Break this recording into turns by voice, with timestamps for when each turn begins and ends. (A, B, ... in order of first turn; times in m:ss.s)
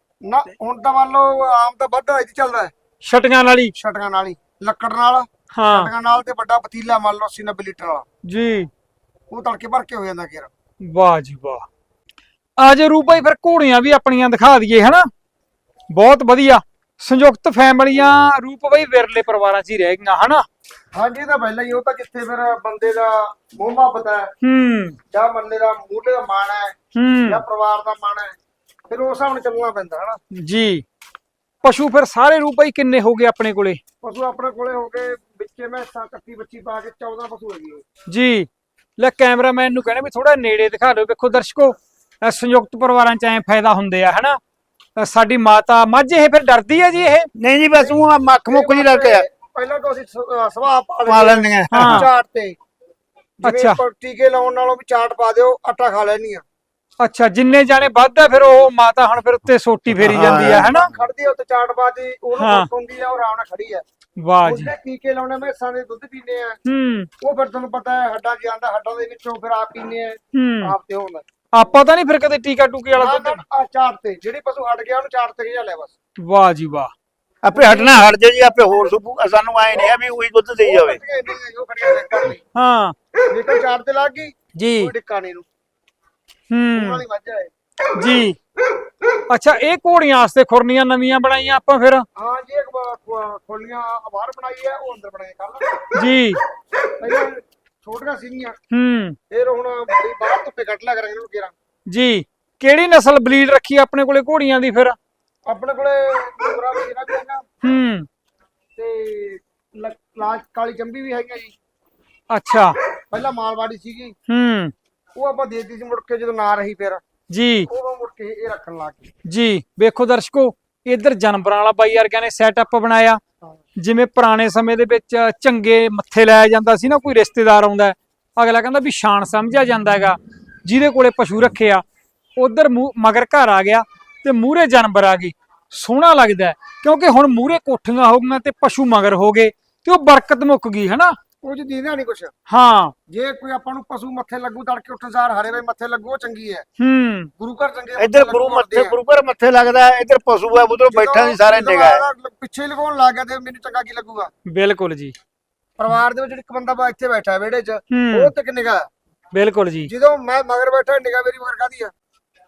0:00.2-0:02.7 A
0:03.0-0:03.7 B
0:03.8-0:08.0 A
0:05.5-0:05.9 B
0:08.2-0:08.7 B
0:09.3-0:10.5 A
0:10.8-0:11.6 B
0:12.6-0:15.1 B
0:15.9-0:20.4 B
0:20.9-0:24.3 A
0:24.4-0:25.0 B
0:25.1-0:26.7 A
0:26.9-0:27.4 B
0:27.2-0:28.3 A
0:28.9-0:30.2 A
0:30.3-0:30.8 B
0:31.6-0:33.8 B
0:34.0-0:37.8 A
0:38.1-0:44.4 B
0:45.0-0:47.2 B
0:47.4-0:49.2 C
0:48.5-0:52.6 A
0:51.0-0:52.1 C
0:51.7-0:52.0 B
0:53.4-0:56.4 A
0:53.4-0:53.8 B
0:57.0-1:00.9 B
0:59.9-1:01.1 C
1:00.2-1:03.8 A
1:02.4-1:02.7 B
1:04.2-1:04.7 B
1:04.4-1:06.6 A
1:06.6-1:07.1 B
1:07.2-1:11.2 A
1:10.3-1:10.7 B
1:11.5-1:13.4 B
1:13.0-1:15.9 A
1:16.2-1:16.9 B
1:17.4-1:21.0 C
1:17.5-1:18.0 A
1:20.6-1:22.4 A
1:22.5-1:22.9 B
1:23.3-1:25.4 A
1:24.5-1:24.9 B
1:26.5-1:27.0 B
1:26.7-1:27.5 A
1:27.9-1:28.4 B
1:29.3-1:32.0 B
1:32.2-1:35.9 A
1:35.9-1:36.4 B
1:37.0-1:38.6 A
1:38.7-1:39.2 B
1:39.3-1:41.5 A
1:41.9-1:45.0 B
1:45.5-1:47.4 A
1:47.6-1:48.1 B
1:48.8-1:51.5 A
1:52.3-1:52.8 B
1:53.1-1:54.1 A
1:54.3-1:54.7 B
1:55.2-1:57.0 A
1:57.3-1:57.7 B
1:57.7-1:59.1 A
1:59.2-2:03.2 B
2:03.8-2:11.8 B
2:12.4-2:21.1 B
2:21.4-2:22.3 A
2:22.5-2:22.9 B
2:23.1-2:26.6 A
2:26.8-2:27.3 B
2:27.4-2:29.0 A
2:28.0-2:32.0 C
2:30.9-2:34.3 A
2:34.4-2:35.1 B
2:35.8-2:38.9 A
2:37.9-2:38.3 B
2:39.3-2:39.9 B
2:39.9-2:41.9 A